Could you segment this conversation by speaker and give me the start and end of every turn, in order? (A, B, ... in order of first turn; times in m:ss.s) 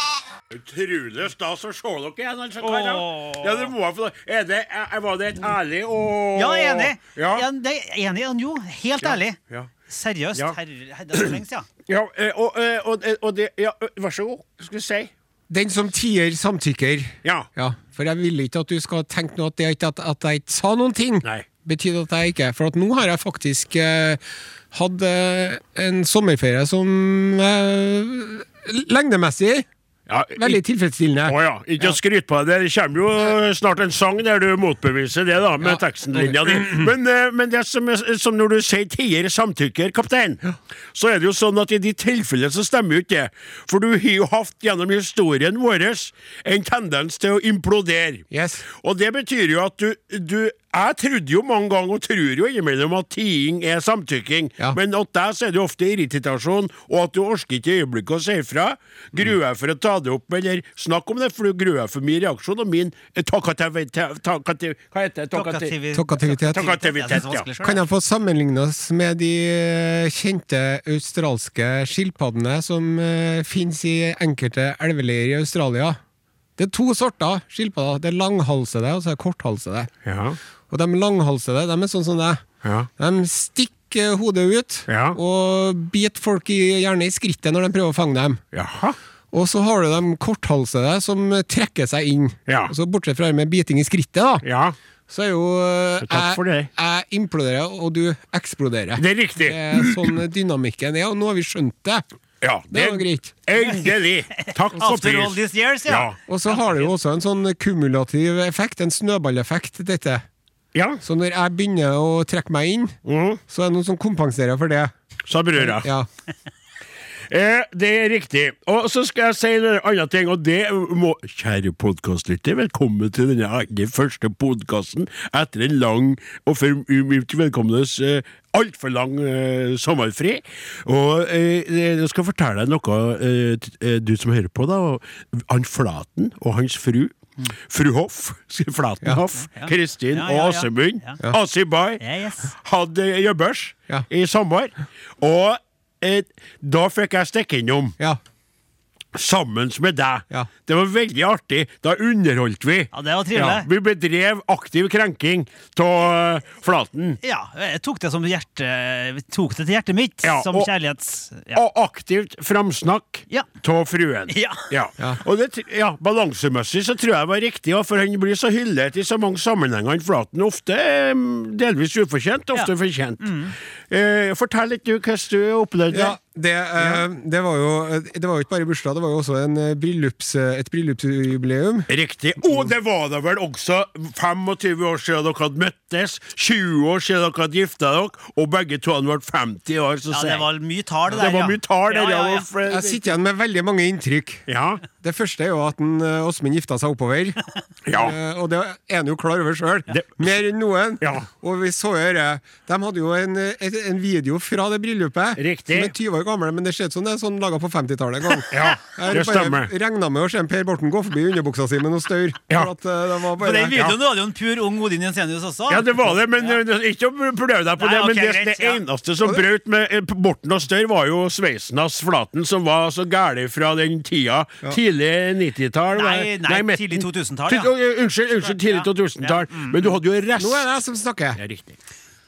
0:00.5-0:07.4 A
0:02.6-0:03.7 B
0:06.3-0:09.4 B
0:09.0-0:09.7 A
0:09.9-0:11.7 B
0:11.9-0:15.1 A
0:15.5-0:24.2 C
0:24.7-0:29.7 C
0:30.1-0:30.6 A
0:30.4-0:31.4 C
0:31.2-0:40.4 A
0:35.6-0:36.9 C
0:40.9-1:05.7 A
0:48.3-0:48.6 C
1:05.3-1:07.8 B
1:05.9-1:06.8 C
1:06.5-1:07.5 A
1:07.6-1:16.0 C
1:16.6-1:19.9 C
1:20.0-1:20.4 A
1:20.7-1:22.4 C
1:22.6-1:22.9 A
1:23.0-1:28.4 C
1:24.9-1:25.2 A
1:28.5-1:29.0 A
1:29.3-1:34.4 C
1:32.5-1:32.7 A
1:34.4-1:34.8 A
1:35.1-1:42.0 C
1:36.0-1:36.7 A
1:39.0-1:40.2 A
1:42.4-1:46.2 A
1:42.7-1:43.3 C
1:44.4-1:46.9 B
1:46.3-1:50.2 C
1:50.7-1:51.0 A
1:51.0-1:53.0 C
1:53.0-1:53.4 A
1:53.5-1:54.9 C
1:55.3-1:55.9 A
1:55.6-1:56.1 C
1:57.3-2:28.0 A
2:19.6-2:21.2 B
2:22.0-2:22.5 B
2:29.1-2:37.2 A
2:32.9-2:33.7 B
2:37.2-2:41.6 B
2:40.2-2:40.7 A
2:41.5-2:56.2 A
2:44.3-2:44.6 B
2:53.2-2:53.5 B
2:55.9-3:01.9 C
3:01.9-3:10.4 A
3:10.1-3:12.5 B
3:11.1-3:13.1 A
3:12.7-3:14.4 C
3:14.5-3:14.8 A
3:15.0-3:17.4 C
3:17.8-3:18.2 A
3:17.9-3:33.8 C
3:19.9-3:20.3 A
3:21.0-3:21.3 A
3:25.4-3:25.9 A
3:28.5-3:29.7 A
3:33.4-3:36.6 B
3:35.7-3:50.7 A
3:37.8-3:38.8 B
3:45.9-3:47.7 B
3:48.4-3:49.9 B
3:50.4-3:51.4 C
3:51.4-3:51.8 A